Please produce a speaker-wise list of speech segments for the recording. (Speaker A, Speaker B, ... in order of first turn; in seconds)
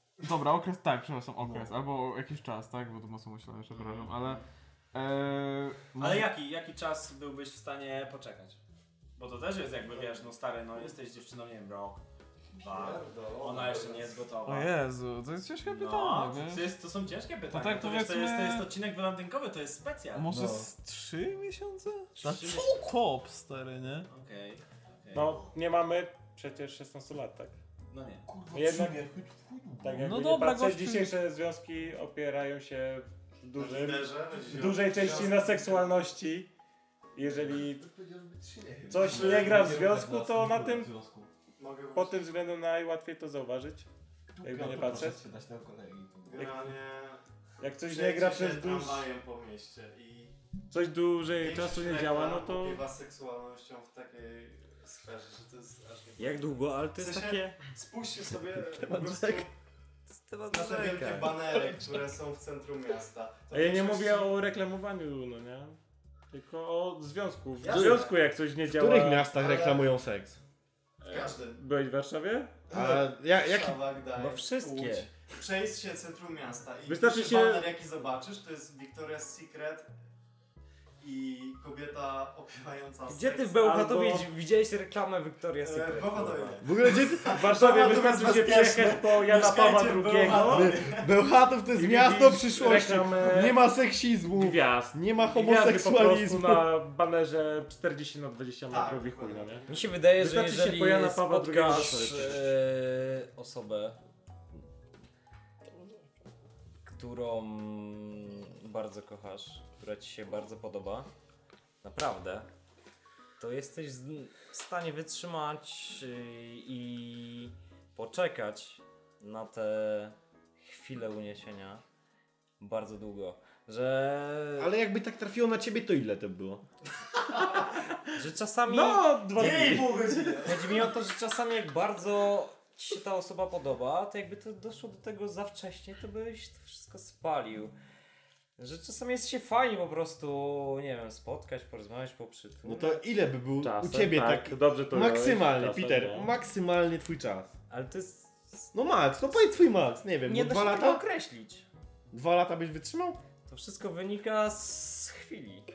Speaker A: 0.2-4.4, 4.9-6.3, 14.4-16.7, 17.5-18.7, 20.1-24.1, 30.0-31.2
Speaker B: 6.0-8.6, 9.2-12.0, 12.6-14.7, 15.6-20.3, 22.2-22.8, 24.1-25.4, 27.9-28.3
Speaker C: 12.7-14.2, 33.5-36.0, 39.2-39.5, 41.6-42.3, 46.3-47.2, 47.8-50.3, 51.4-59.5, 60.5-64.4, 67.6-68.2, 69.3-69.9, 71.1-71.6, 72.7-79.9, 81.0-83.6, 85.6-91.1, 98.7-100.0, 129.3-130.9
Speaker D: 20.3-20.7, 28.3-30.1, 37.5-41.3, 44.3-46.7, 58.7-59.5, 67.7-68.0, 68.7-70.4, 72.7-73.8, 86.6-87.4, 90.2-96.7, 124.6-126.6, 142.6-147.5, 148.7-151.0, 152.1-153.2
Speaker E: 25.1-27.6, 28.5-29.0, 29.8-36.5, 37.1-37.9, 38.9-40.9, 42.0-43.9, 44.4-45.2, 46.4-46.7, 47.6-49.1, 50.7-52.9, 63.5-65.8, 66.3-69.3, 71.0-72.6, 76.9-77.7, 83.6-84.3, 87.2-90.8, 91.8-93.6, 94.3-102.5, 128.7-130.4, 143.6-146.3
Speaker F: 56.2-57.6, 60.1-61.4, 74.2-75.1, 83.1-86.6, 99.7-104.0, 106.9-111.1, 111.8-112.5, 113.4-121.8, 122.6-124.7, 128.1-137.7, 138.6-143.0, 147.7-148.7, 150.3-151.6, 153.5-155.7